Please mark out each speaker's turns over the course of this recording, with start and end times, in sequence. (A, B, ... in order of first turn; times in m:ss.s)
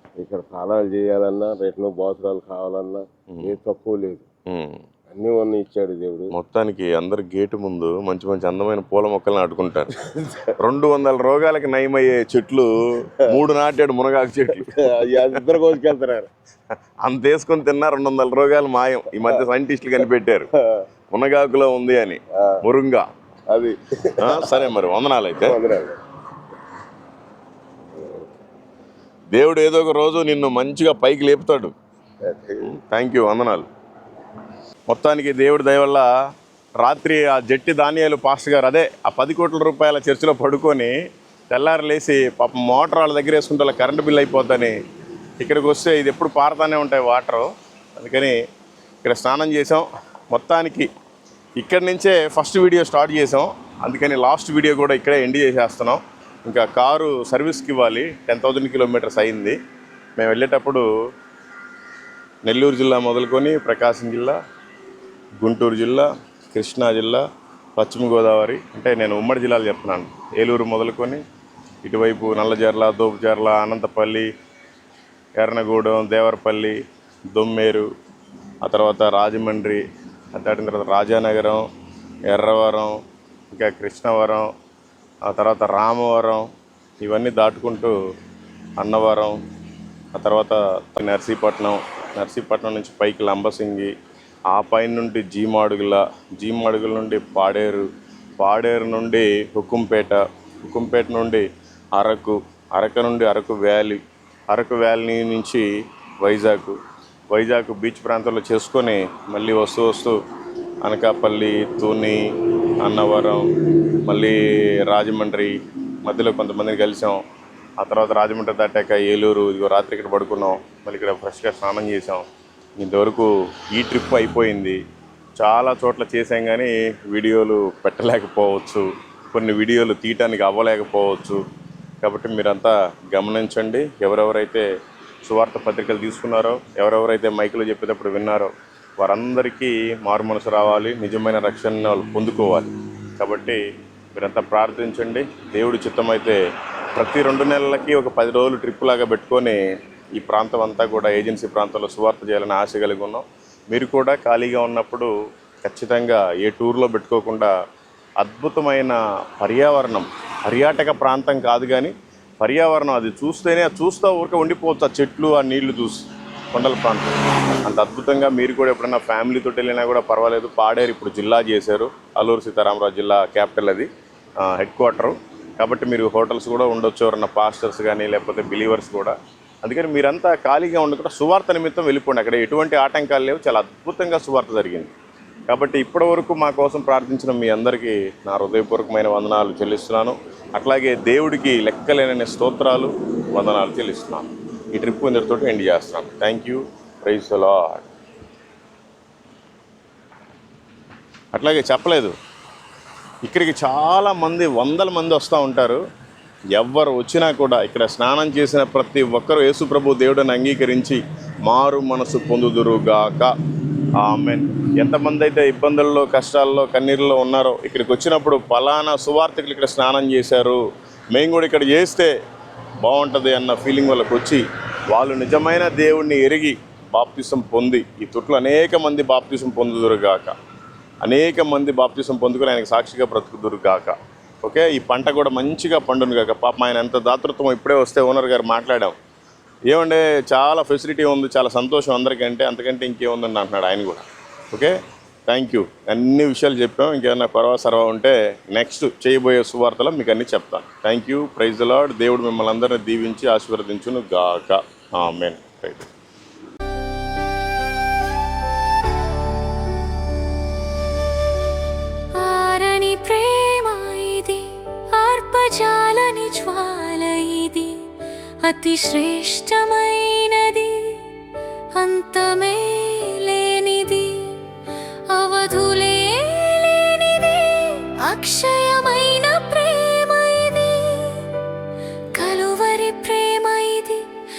0:00.2-0:04.3 A
0:04.5-0:04.8 B
0:05.1-0:06.3 A
0:06.3-0:09.9 B
0:10.0-0:10.5 A
0:10.6-0:15.4 B
0:14.6-0:16.3 A
0:17.0-0:20.5 B
0:20.6-0:20.8 A
0:21.1-0:23.1 B
0:23.5-0:24.7 A
0:24.2-0:25.6 B
0:25.4-0:26.0 A
0:28.0-0:28.2 A
0:29.3-0:31.8 B
0:32.2-0:32.7 A
0:32.7-0:33.7 B
0:34.9-0:36.1 B
0:36.8-0:40.9 B
0:41.5-0:44.8 B
0:45.4-0:48.4 B
0:49.0-0:50.9 B
0:51.6-0:59.6 B
1:00.2-1:00.8 B
1:02.5-1:04.4 B
1:05.4-1:07.2 B
1:07.8-1:11.2 B
1:11.8-1:14.3 B
1:15.4-1:16.8 B
1:17.3-1:17.9 B
1:18.6-1:21.6 B
1:22.3-1:23.0 B
1:23.5-1:24.5 B
1:25.3-1:26.5 B
1:27.0-1:27.9 B
1:28.8-1:29.4 B
1:30.1-1:33.9 B
1:34.5-1:37.9 B
1:38.4-1:45.7 B
1:46.2-1:46.8 B
1:47.3-1:50.2 B
1:50.8-1:52.2 B
1:52.8-1:53.4 B
1:54.0-1:54.4 B
1:54.9-1:57.2 B
1:57.8-2:02.2 B
2:02.8-2:04.8 B
2:05.4-2:11.4 B
2:12.0-2:14.7 B
2:15.3-2:23.6 B
2:24.1-2:26.4 B
2:27.0-2:29.6 B
2:30.2-2:35.1 B
2:35.6-2:37.5 B
2:38.2-2:47.1 B
2:47.6-2:53.9 B
2:54.4-3:04.9 B
3:05.5-3:17.9 B
3:21.3-3:22.1 B
3:23.2-3:25.8 B
3:26.6-3:33.3 B
3:34.0-3:40.6 B
3:41.1-3:42.1 B
3:42.8-3:50.3 B
3:51.0-3:59.0 B
3:59.7-4:04.8 B
4:05.3-4:15.9 B
4:22.2-4:27.8 C
4:28.4-4:31.0 C
4:31.8-4:34.2 C
4:35.1-4:41.2 C
4:42.2-4:44.0 C